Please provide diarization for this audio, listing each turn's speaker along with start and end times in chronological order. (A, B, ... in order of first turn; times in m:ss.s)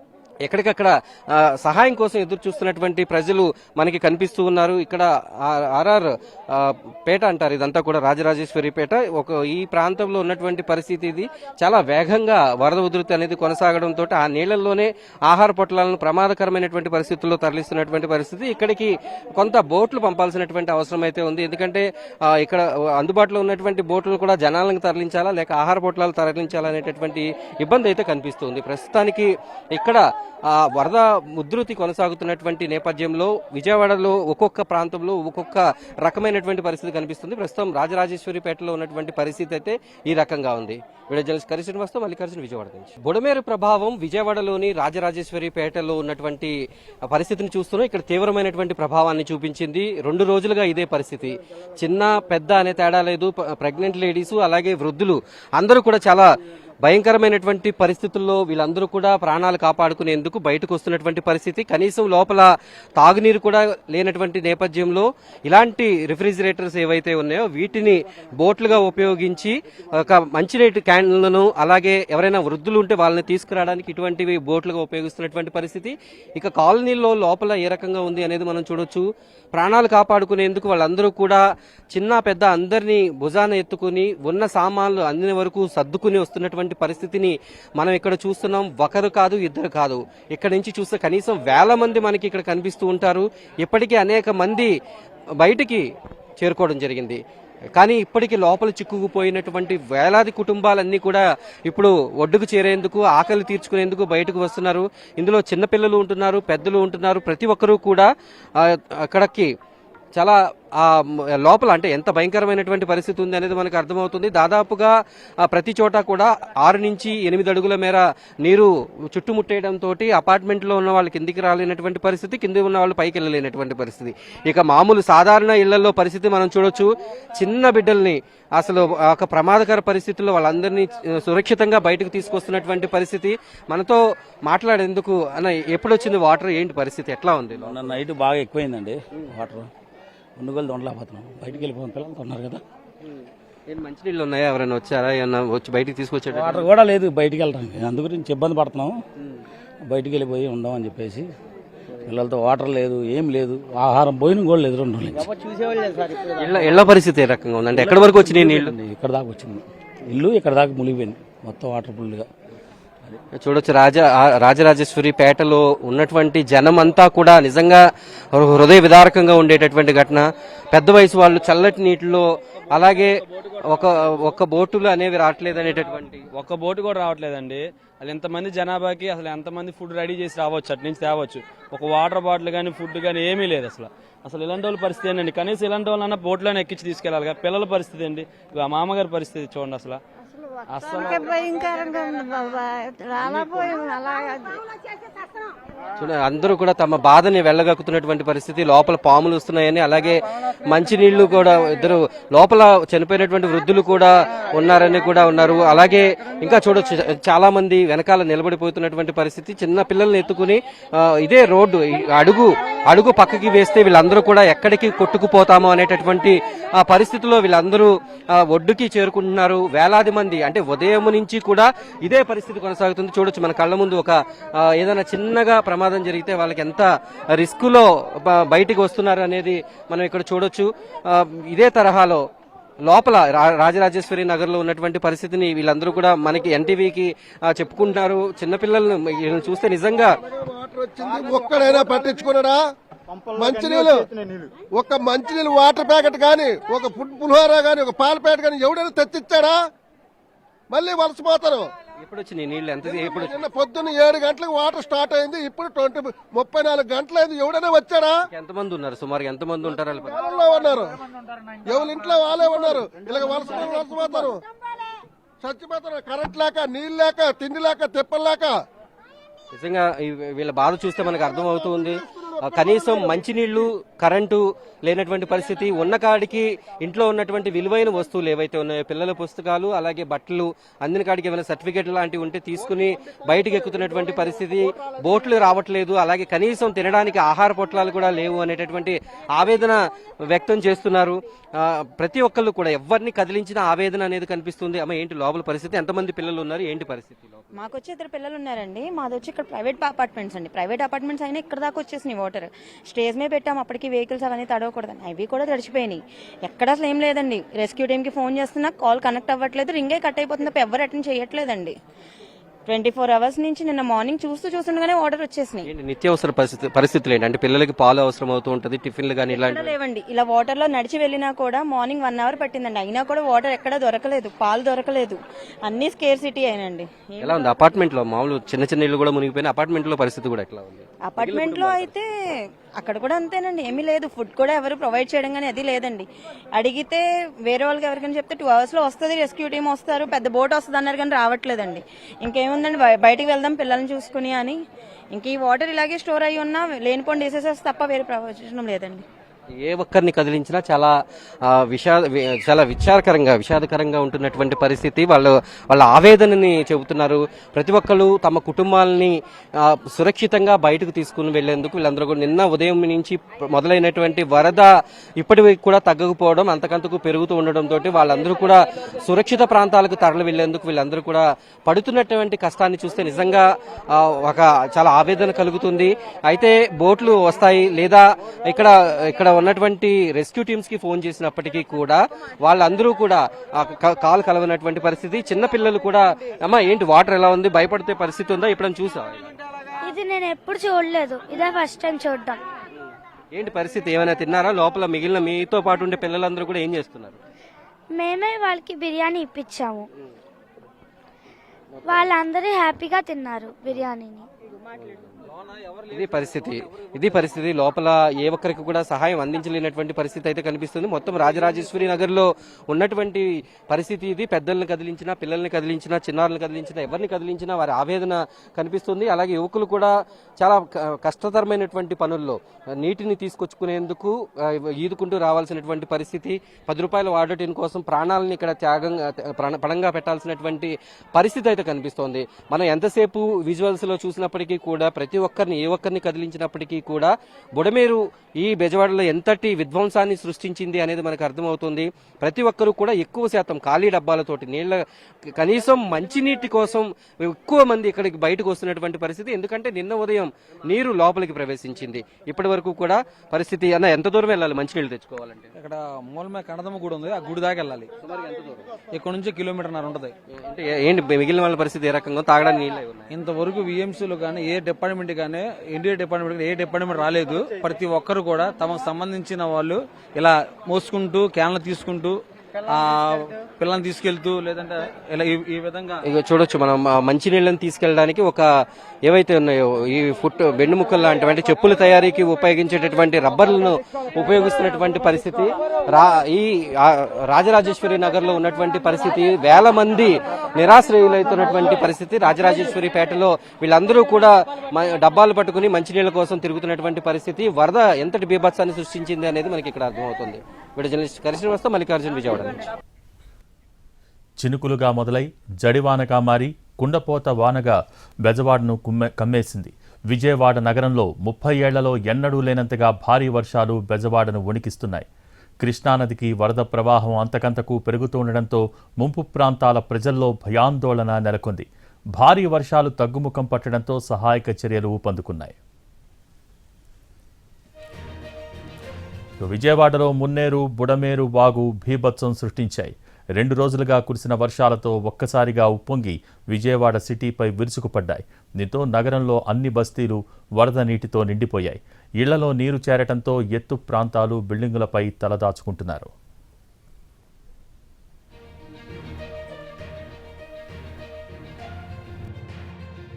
0:00.4-0:46.5 A
0:47.1-0:56.2 A
0:56.8-1:34.7 A
1:35.4-1:35.8 A
1:36.4-1:37.2 A
1:37.8-1:49.5 A
1:50.2-2:18.0 A
2:17.6-2:19.7 B
2:20.4-2:22.6 B
2:23.0-2:26.7 A
2:26.3-2:29.0 B
2:29.8-2:31.3 B
2:32.0-2:35.3 B
2:36.3-2:38.7 A
2:37.7-2:42.3 B
2:43.4-2:47.8 A
2:48.3-2:56.2 A
2:56.3-3:10.0 C
3:10.7-3:11.8 C
3:11.1-3:14.6 D
3:13.2-3:13.7 C
3:16.0-3:52.2 A
3:52.8-4:00.2 A
4:00.3-4:02.6 E
4:03.3-4:04.1 E
4:04.7-4:09.6 E
4:10.7-4:11.7 E
4:12.0-4:13.4 A
4:12.8-4:18.2 E
4:18.3-4:20.2 A
4:20.1-4:21.0 E
4:21.6-4:24.4 E
4:25.4-4:28.6 E
4:29.5-4:49.8 A
4:50.3-4:57.5 A
4:57.6-5:11.7 F
5:12.7-5:15.7 F
5:15.6-5:19.7 A
5:19.3-5:27.6 F
5:27.2-5:31.9 A
5:31.0-5:32.1 F
5:32.8-5:44.6 F
5:45.1-5:49.0 F
5:49.6-5:50.9 A
5:51.5-6:29.3 A
6:29.8-6:32.4 G
6:33.3-6:37.2 A
6:37.9-6:39.9 G
6:41.8-6:42.1 A
6:41.8-6:44.3 G
6:45.3-6:46.3 C
6:45.9-7:24.8 A
7:25.3-7:35.5 A
7:35.6-7:37.9 C
7:38.0-7:38.7 A
7:38.9-7:40.1 C
7:40.3-7:43.1 A
7:43.1-7:56.0 C
7:56.1-7:58.4 A
7:59.0-8:22.6 A
8:24.4-8:35.1 H
8:35.6-8:45.6 H
8:49.4-9:06.1 H